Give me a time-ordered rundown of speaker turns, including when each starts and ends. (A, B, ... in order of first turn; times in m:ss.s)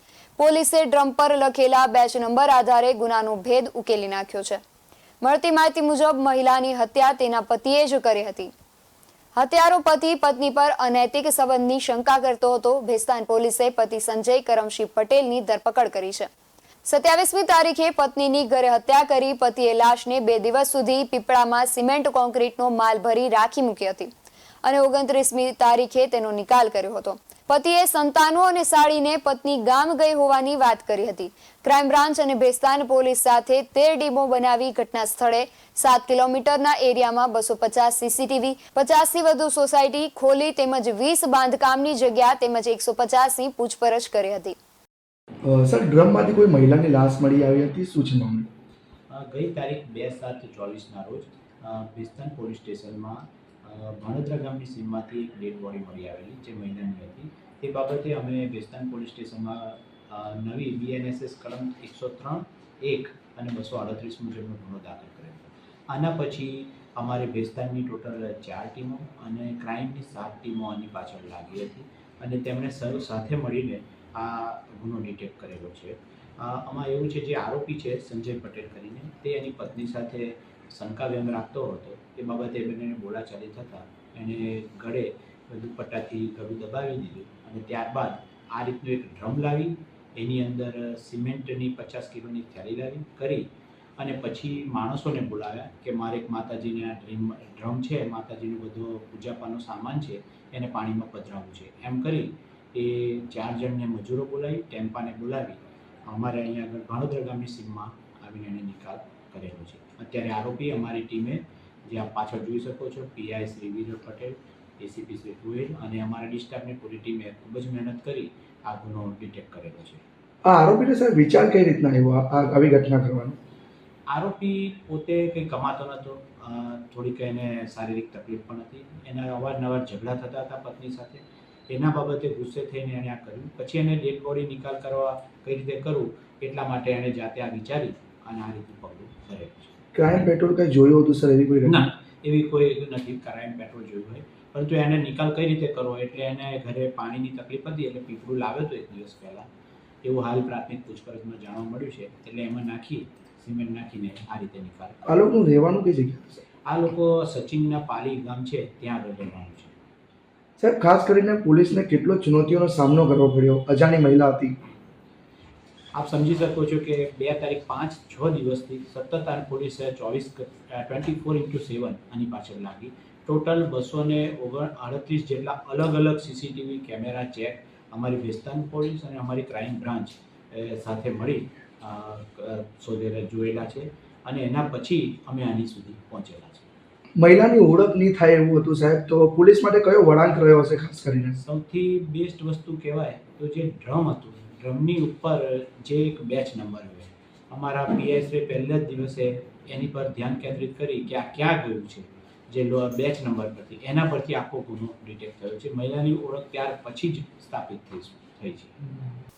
0:00.4-0:04.6 A
0:05.2-0:08.5 A
0:09.4-0:16.3 A
0:16.8-0:24.1 A
0:24.6-0:44.6 A
0:45.5-0:48.5 B
0:49.1-1:33.5 C
1:34.0-2:00.0 C
2:00.4-2:03.4 B
2:04.1-2:19.8 C
2:19.9-2:21.9 B
2:21.7-2:29.5 C
2:30.0-2:35.2 C
2:35.1-2:36.4 B
2:36.7-2:39.7 C
2:40.6-2:44.6 B
2:46.0-3:06.7 C
3:07.2-3:11.4 B
3:11.4-3:28.7 C